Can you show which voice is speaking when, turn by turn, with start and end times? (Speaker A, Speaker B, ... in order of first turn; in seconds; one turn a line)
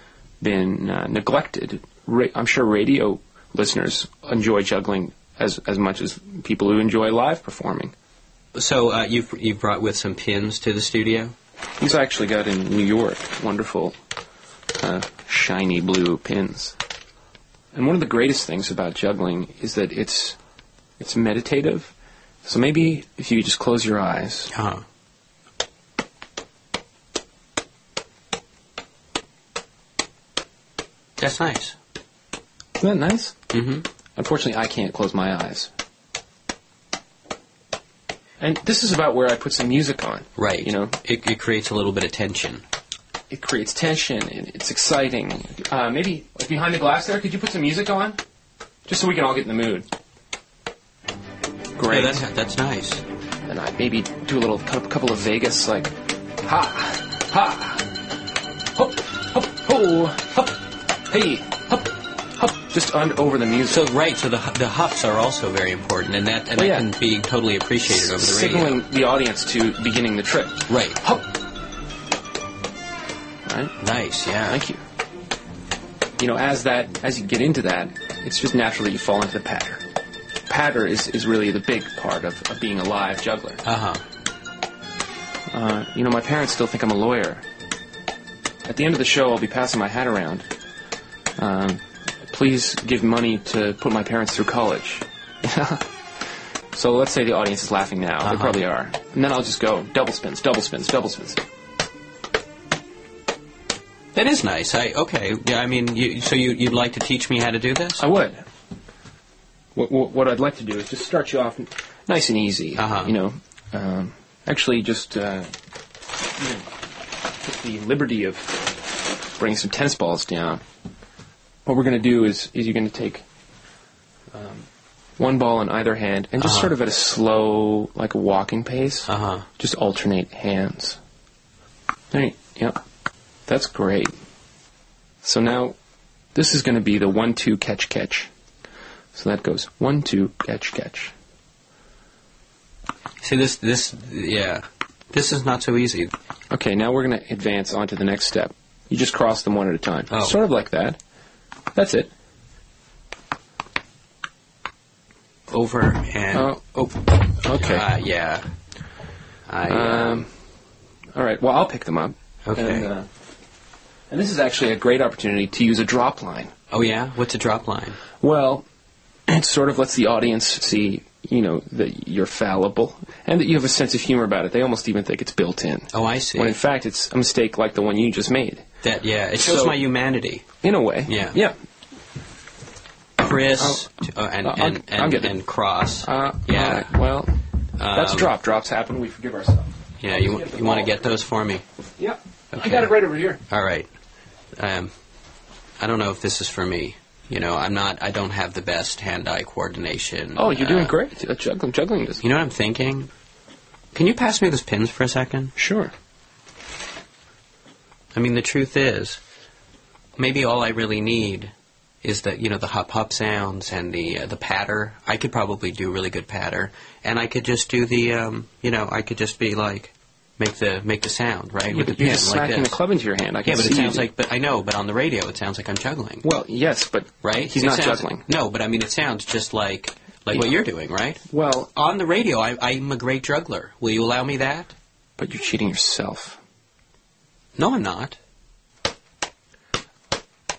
Speaker A: 0.4-7.9
Speaker B: 8.5-11.3
Speaker A: 11.8-14.0
Speaker A: 14.8-16.8
Speaker A: 17.7-20.4
Speaker A: 21.0-21.9
Speaker A: 22.4-24.5
Speaker B: 24.5-24.8
Speaker B: 31.2-31.8
Speaker A: 32.8-33.5
Speaker B: 33.5-33.8
Speaker A: 34.1-35.7
Speaker A: 38.4-40.9
Speaker B: 40.4-42.6
Speaker A: 43.3-48.2
Speaker A: 48.9-49.9
Speaker A: 51.8-52.2
Speaker B: 51.8-53.0
Speaker A: 53.5-57.9
Speaker A: 58.7-63.9
Speaker B: 63.7-68.8
Speaker A: 66.6-66.9
Speaker A: 67.9-71.4
Speaker B: 70.7-71.0
Speaker A: 73.5-73.8
Speaker B: 73.8-74.6
Speaker A: 74.5-74.8
Speaker A: 76.2-79.8
Speaker A: 80.5-83.6
Speaker B: 83.6-84.0
Speaker A: 85.5-87.4
Speaker A: 88.7-90.5
Speaker A: 91.4-101.4
Speaker B: 98.2-98.6
Speaker B: 104.1-108.0
Speaker A: 108.0-108.4
Speaker A: 109.7-115.5
Speaker B: 112.8-113.2
Speaker A: 116.3-116.7
Speaker A: 117.4-120.6
Speaker A: 121.6-123.2
Speaker A: 124.3-124.7
Speaker A: 125.2-131.0
Speaker B: 126.4-126.7
Speaker B: 129.1-129.4
Speaker A: 132.1-132.8
Speaker A: 133.5-134.2
Speaker A: 135.2-135.8
Speaker A: 136.3-138.3
Speaker A: 139.1-141.1
Speaker B: 143.2-146.1
Speaker A: 146.5-151.0
Speaker B: 150.1-150.4
Speaker A: 151.7-152.1
Speaker B: 155.5-156.5
Speaker A: 156.3-157.9
Speaker B: 157.5-158.4
Speaker B: 159.5-160.2
Speaker A: 159.7-160.3
Speaker A: 161.1-163.1
Speaker B: 162.4-162.9
Speaker A: 164.1-166.5
Speaker B: 166.7-168.0
Speaker A: 168.2-168.7
Speaker A: 169.3-178.7
Speaker B: 175.9-176.6
Speaker B: 178.8-180.5
Speaker A: 179.4-179.8
Speaker A: 180.6-181.6
Speaker B: 181.1-181.4
Speaker B: 183.2-186.9
Speaker A: 183.6-183.9
Speaker A: 184.4-185.4
Speaker A: 186.0-187.3
Speaker B: 187.8-188.3
Speaker A: 187.9-191.0
Speaker B: 190.0-191.6
Speaker A: 192.0-193.4
Speaker B: 192.5-193.9
Speaker B: 194.6-194.9
Speaker B: 195.8-200.9
Speaker A: 200.3-202.2
Speaker B: 202.2-203.1
Speaker B: 203.9-205.5
Speaker A: 205.6-205.9
Speaker B: 208.1-209.2
Speaker B: 210.2-211.5
Speaker B: 212.0-222.8
Speaker A: 221.7-224.1
Speaker B: 223.4-226.2
Speaker A: 226.2-228.2
Speaker B: 227.2-231.2
Speaker A: 230.3-230.6
Speaker A: 231.3-231.7
Speaker B: 231.7-234.7
Speaker A: 235.2-236.4
Speaker B: 237.6-238.2